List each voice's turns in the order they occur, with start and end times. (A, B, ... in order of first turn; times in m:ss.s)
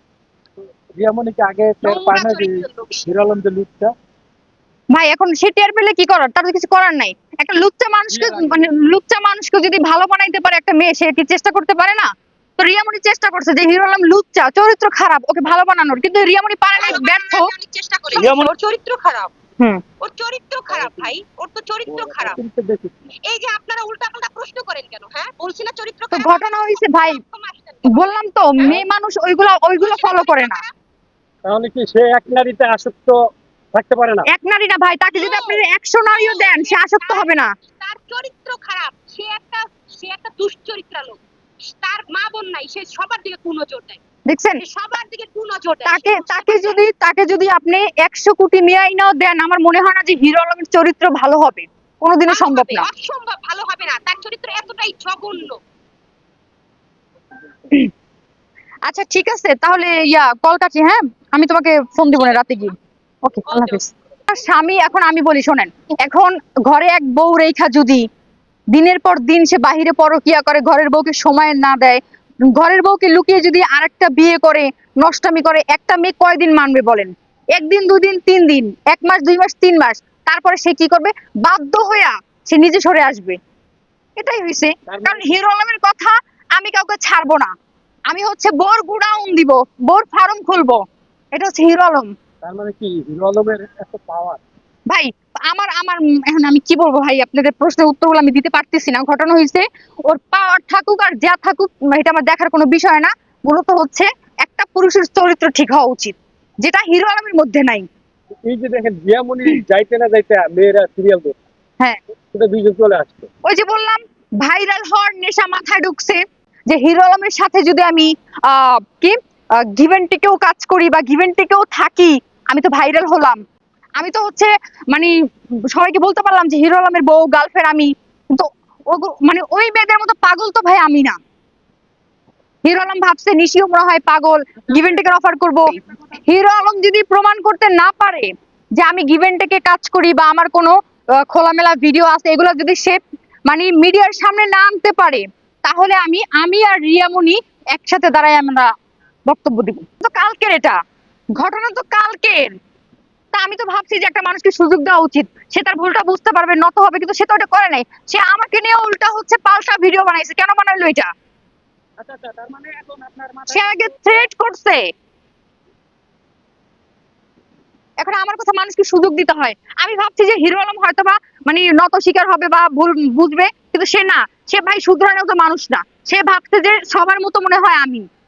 0:00.9-0:03.9 A
0:01.8-0:03.1 B
0:04.9-0:17.5 C
0:08.1-0:08.7 A
0:16.8-0:19.3 B
0:18.2-0:18.5 A
0:20.0-0:22.4 B
0:20.7-0:21.1 A
0:21.9-0:22.9 A
0:23.2-0:28.8 B
0:26.1-0:27.2 C
0:27.9-0:30.6 C
0:29.8-0:30.7 B
0:31.4-0:33.2 A
0:33.7-0:34.3 A
0:34.3-0:37.5 C
0:35.1-0:41.2 B
0:41.8-0:44.0 B
0:44.3-0:44.6 C
0:44.6-0:46.8 B
0:45.8-0:52.9 C
0:52.3-0:55.6 B
0:58.8-1:08.0 C
1:03.5-1:03.9 B
1:08.7-1:12.0 C
1:12.5-1:23.4 C
1:24.2-1:27.5 C
1:24.9-1:25.3 A
1:28.1-1:30.8 C
1:31.3-1:32.1 C
1:32.4-1:34.4 A
1:34.9-1:47.8 C
1:48.4-1:51.4 A
1:52.3-1:53.3 A
1:53.4-2:03.4 C
2:04.0-2:05.1 C
2:05.7-2:11.2 C
2:12.6-2:28.7 C
2:14.7-2:15.2 A
2:15.7-2:16.2 A
2:29.3-2:30.8 C
2:31.4-2:32.6 C
2:33.3-2:41.1 C
2:42.0-2:44.3 A
2:43.5-2:44.8 C
2:48.0-2:58.0 C